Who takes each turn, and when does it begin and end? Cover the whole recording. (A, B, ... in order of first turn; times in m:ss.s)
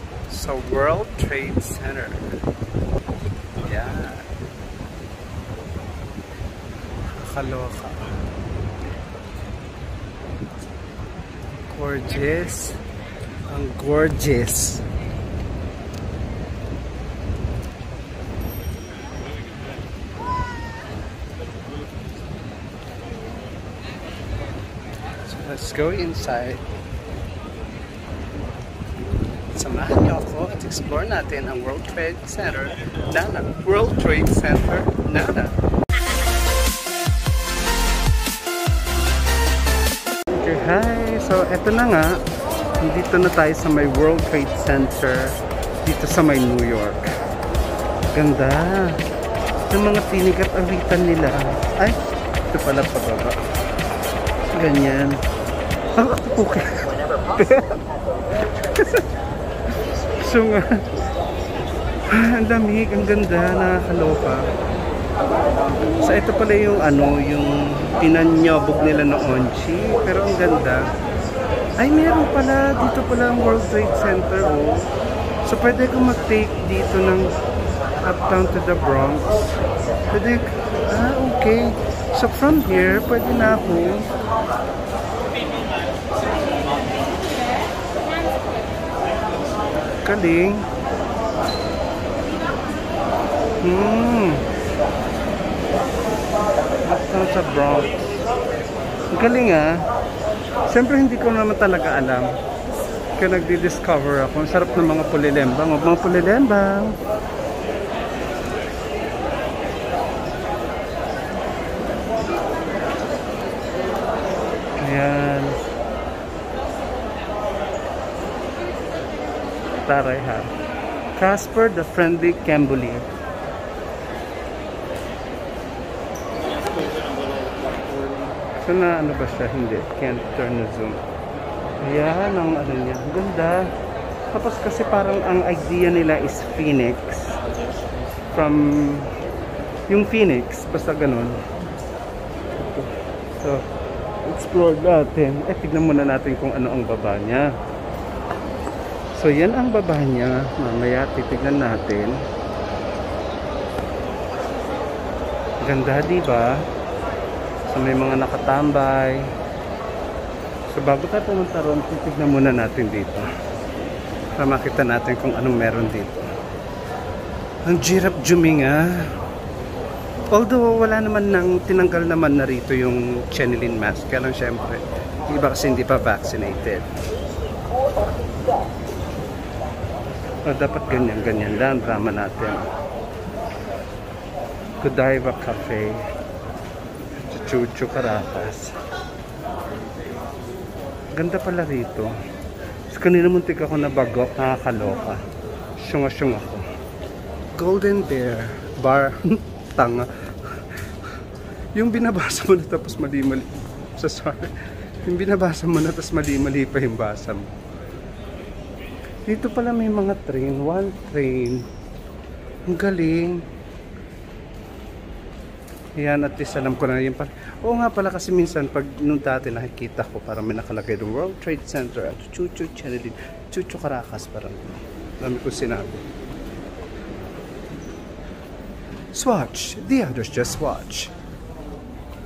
0:00.3-0:02.4 A
0:03.6-0:04.3 A
0:07.1-0:08.0 A
0:11.7-0:12.8 A
0:13.5-0:14.8 A
0:25.2-0:26.6 A
0:29.5-0:35.6 A
0:40.3-0:42.2 A
0:42.8-0:47.1 A
0:48.1-0:49.0 A
0:49.7-0:52.0 A
0:52.5-0:53.4 A
0:54.5-0:55.2 A
0:56.0-0:57.8 A
0:58.6-0:59.1 A
1:00.2-1:00.8 A
1:02.1-1:04.5 A
1:06.0-1:10.9 A
1:11.8-1:14.9 A
1:15.4-1:17.3 A
1:18.0-1:19.6 A
1:20.1-1:24.1 A
1:30.0-1:30.7 A
1:33.6-1:34.4 A
1:36.8-1:38.0 A
1:39.1-1:39.8 A
1:40.6-1:42.3 A
1:43.2-1:47.0 A
1:54.8-1:55.6 A
1:59.8-2:00.5 A
2:01.2-2:03.1 A
2:08.5-2:11.0 A
2:11.8-2:13.7 A
2:14.3-2:17.4 A
2:18.3-2:19.2 A
2:19.9-2:21.4 A
2:22.6-2:23.6 A
2:24.2-2:27.5 A
2:29.1-2:32.2 A
2:35.6-2:36.6 A
2:37.7-2:39.3 A
2:40.7-2:43.2 A
2:44.4-2:46.3 A
2:47.6-2:49.1 A
2:50.3-2:56.9 A
3:00.4-3:02.6 A
3:04.8-3:06.0 A
3:07.2-3:08.8 A
3:11.1-3:12.1 A
3:12.9-3:15.2 A
3:15.8-3:16.6 A
3:17.5-3:20.8 A
3:21.7-3:27.5 A
3:29.2-3:31.6 A
3:32.7-3:33.4 A
3:36.0-3:46.0 A
3:49.1-3:51.1 A